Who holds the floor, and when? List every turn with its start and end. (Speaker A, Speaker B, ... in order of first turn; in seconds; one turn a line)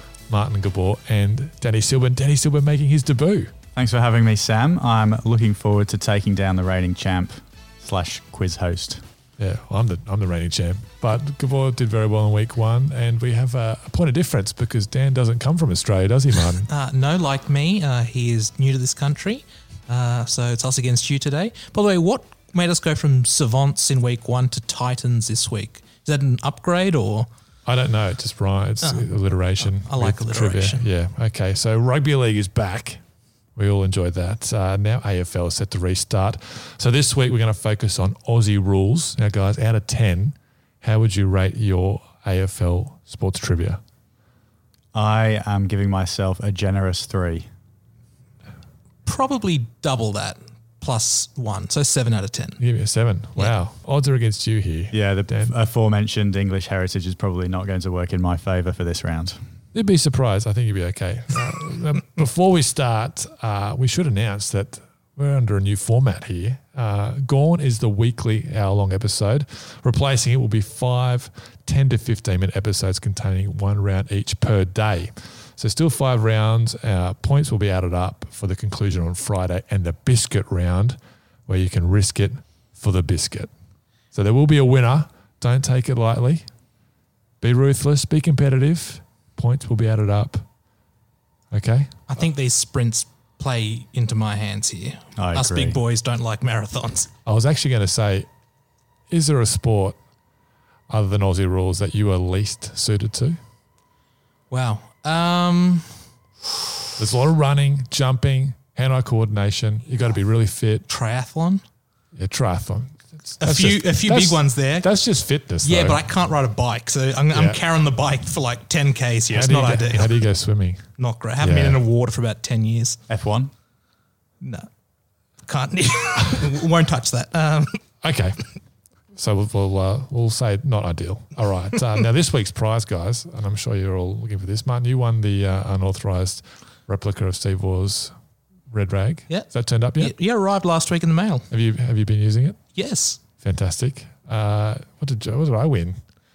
Speaker A: 0.3-3.5
Speaker B: 3.8-9.0
Speaker A: 9.4-16.7
Speaker C: 16.7-27.3
Speaker A: 27.7-33.0
Speaker C: 29.6-30.9
Speaker A: 33.6-43.8
Speaker B: 44.9-47.5
Speaker C: 49.0-52.6
Speaker A: 52.6-55.5
Speaker B: 54.9-59.4
Speaker A: 59.7-83.5
Speaker A: 84.1-86.5
Speaker A: 87.4-90.4
Speaker A: 91.5-91.9
Speaker C: 92.1-97.1
Speaker B: 95.2-95.8
Speaker A: 97.2-98.3
Speaker A: 99.1-100.0
Speaker A: 100.9-103.4
Speaker C: 104.5-105.9
Speaker A: 107.0-110.9
Speaker C: 110.9-111.6
Speaker A: 112.2-116.0
Speaker C: 113.4-114.9
Speaker C: 115.6-120.2
Speaker A: 117.3-117.6
Speaker A: 119.3-120.8
Speaker C: 121.0-123.0
Speaker A: 121.4-121.8
Speaker B: 123.1-123.5
Speaker C: 124.4-124.7
Speaker C: 125.5-127.8
Speaker A: 128.0-128.4
Speaker A: 129.2-138.1
Speaker A: 138.7-140.1
Speaker C: 139.3-141.5
Speaker A: 141.5-142.6
Speaker C: 142.8-143.2
Speaker A: 143.4-146.0